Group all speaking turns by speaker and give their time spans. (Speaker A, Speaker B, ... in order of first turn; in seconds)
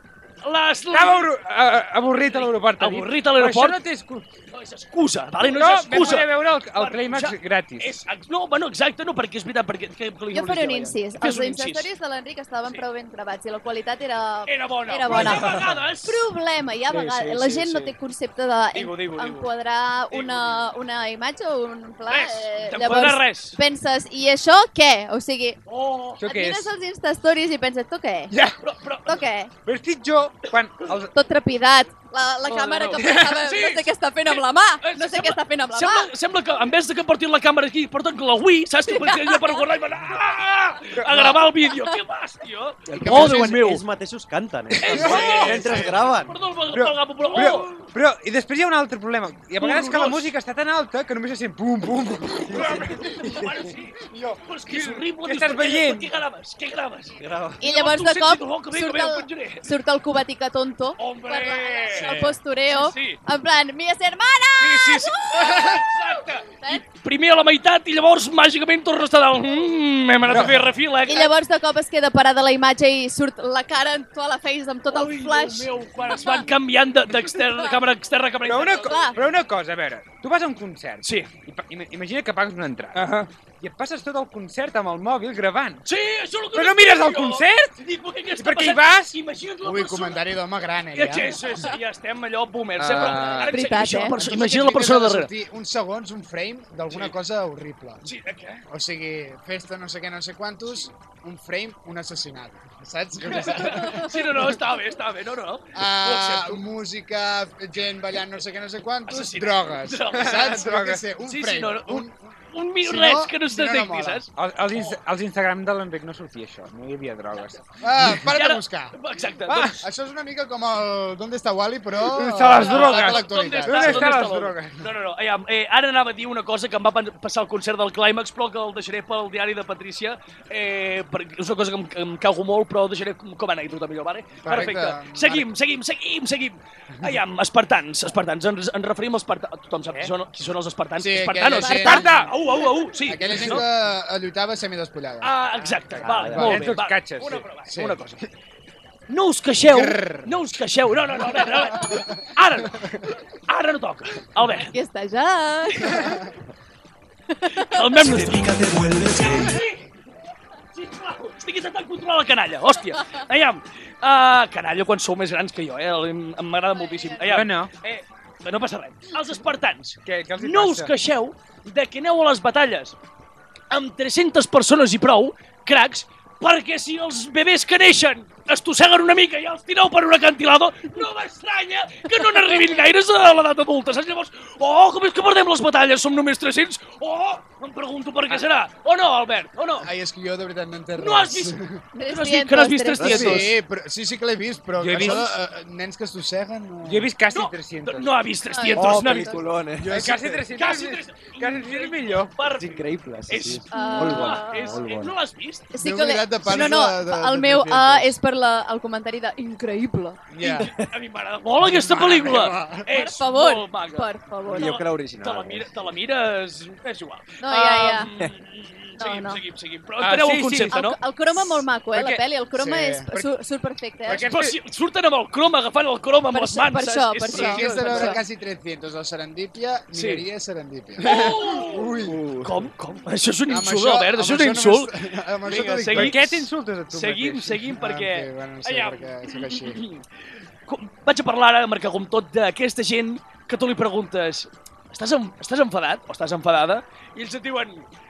Speaker A: 0.4-1.3, 2.2-3.8, 4.5-11.9, 14.4-16.2, 16.9-17.9, 18.7-19.5, 20.1-20.7, 22.1-23.6, 25.7-26.2, 28.6-29.2, 32.4-43.8, 44.8-47.9, 49.6-50.3, 52.5-59.6, 61.0-62.2, 62.7-63.2, 64.6-71.3, 74.9-79.1, 81.0-81.3, 82.9-83.3, 85.8-90.2, 90.9-95.3, 96.9-97.1, 98.0-98.6, 103.2-106.6, 109.1-110.7, 111.2-115.0, 118.3-119.8, 122.6-143.7, 145.2-148.2, 149.1-154.8, 157.7-159.9, 160.7-172.9, 173.7-189.9, 191.0-193.5, 194.9-195.2, 197.3-199.4, 200.5-205.7, 210.4-221.0, 221.9-222.2, 224.1-228.2, 229.9-230.2, 231.0-234.9, 235.4-240.0, 240.7-247.8
Speaker B: 0.9-4.3, 5.4-8.0, 26.2-26.7, 28.3-28.6, 29.6-31.1, 33.0-33.4, 41.0-41.4, 44.8-45.6, 46.7-56.1, 70.2-70.7, 78.4-85.8, 86.5-87.8, 88.4-89.2, 92.8-93.5, 110.2-111.0, 114.3-118.2, 119.5-119.8, 122.0-124.8, 141.8-142.3, 143.3-143.6, 145.9-147.5, 149.7-150.3, 167.2-167.7, 170.0-170.9, 194.8-195.3, 196.8-198.1, 199.8-202.4, 220.0-220.8, 224.1-224.6, 231.0-232.1, 235.9-237.6
Speaker C: 10.3-25.6, 26.2-28.3, 29.1-29.5, 31.1-36.1, 38.9-39.6, 57.6-66.8, 71.0-76.5, 77.3-77.8, 78.8-79.2, 93.3-94.2, 141.6-142.0, 154.5-156.2, 157.3-157.9, 166.7-167.2, 191.9-193.4, 198.5-199.4, 203.7-204.8, 205.7-210.2, 212.9-214.7, 217.4-218.1, 219.0-219.4, 220.7-224.2, 226.3-228.2
Speaker D: 42.9-46.4, 57.2-57.6, 146.0-146.4, 158.1-159.5, 193.0-193.4, 198.7-200.2, 202.5-205.2, 214.5-215.7, 232.0-232.5
Speaker E: 42.9-43.6, 44.9-46.0, 89.6-91.4, 94.2-98.0, 98.7-104.2, 105.7-114.2, 117.8-118.9, 119.7-124.2, 134.4-135.5, 141.0-142.1, 143.1-145.3, 146.2-146.8, 147.7-148.0, 189.8-191.8, 193.0-197.1, 199.8-200.4, 205.8-208.1, 210.3-210.7, 211.6-213.0, 222.5-223.3, 227.3-231.4, 233.5-236.4, 237.7-239.8